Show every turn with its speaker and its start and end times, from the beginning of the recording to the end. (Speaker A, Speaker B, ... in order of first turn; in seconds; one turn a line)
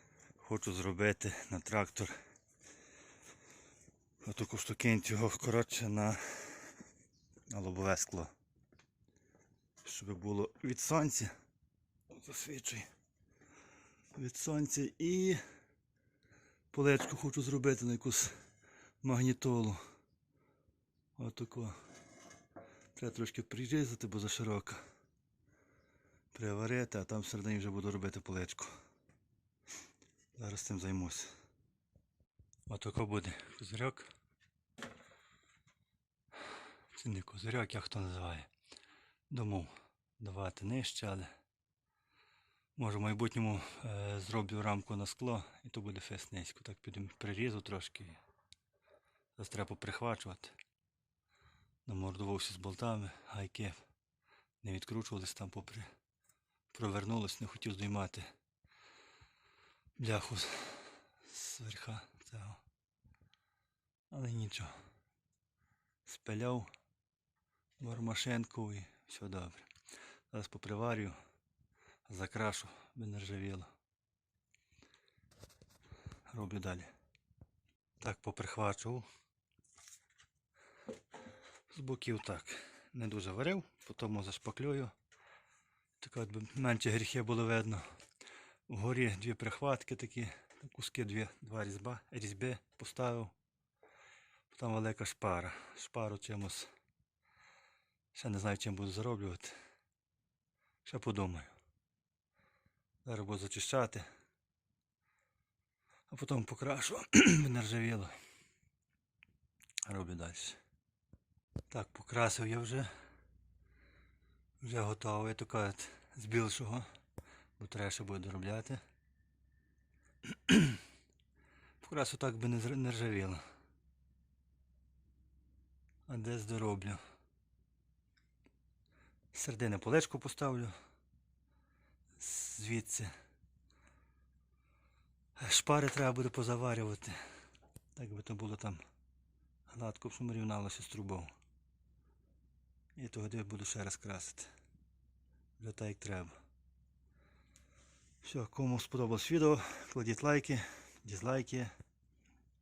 Speaker A: 0.4-2.1
Speaker A: 4.2-6.7
Speaker A: 7.5-8.3
Speaker A: 9.8-11.3
Speaker A: 12.1-12.9
Speaker A: 14.2-15.4
Speaker A: 16.7-18.3
Speaker A: 19.0-19.8
Speaker A: 21.2-21.8
Speaker A: 22.9-24.8
Speaker A: 26.3-28.7
Speaker A: 30.4-31.3
Speaker A: 32.7-34.1
Speaker A: 36.9-38.5
Speaker A: 39.3-41.3
Speaker A: 42.8-48.2
Speaker A: 49.4-50.5
Speaker A: 51.9-53.8
Speaker A: 54.6-55.9
Speaker A: 56.7-58.3
Speaker A: 60.0-62.6
Speaker A: 64.1-64.7
Speaker A: 66.0-66.7
Speaker A: 67.8-69.7
Speaker A: 70.3-71.2
Speaker A: 72.1-73.7
Speaker A: 76.3-76.9
Speaker A: 78.0-79.0
Speaker A: 81.7-84.9
Speaker A: 86.0-87.8
Speaker A: 88.7-93.3
Speaker A: 94.5-96.7
Speaker A: 98.1-99.5
Speaker A: 100.8-101.5
Speaker A: 103.0-104.1
Speaker A: 106.1-108.1
Speaker A: 109.9-110.6
Speaker A: 111.7-112.9
Speaker A: 114.6-116.9
Speaker A: 117.6-118.8
Speaker A: 120.5-120.8
Speaker A: 121.8-123.4
Speaker A: 126.1-127.0
Speaker A: 129.3-130.7
Speaker A: 132.2-133.1
Speaker A: 135.4-137.2
Speaker A: 137.9-138.8
Speaker A: 139.7-141.3
Speaker A: 143.0-144.5
Speaker A: 145.6-146.4
Speaker A: 148.2-151.7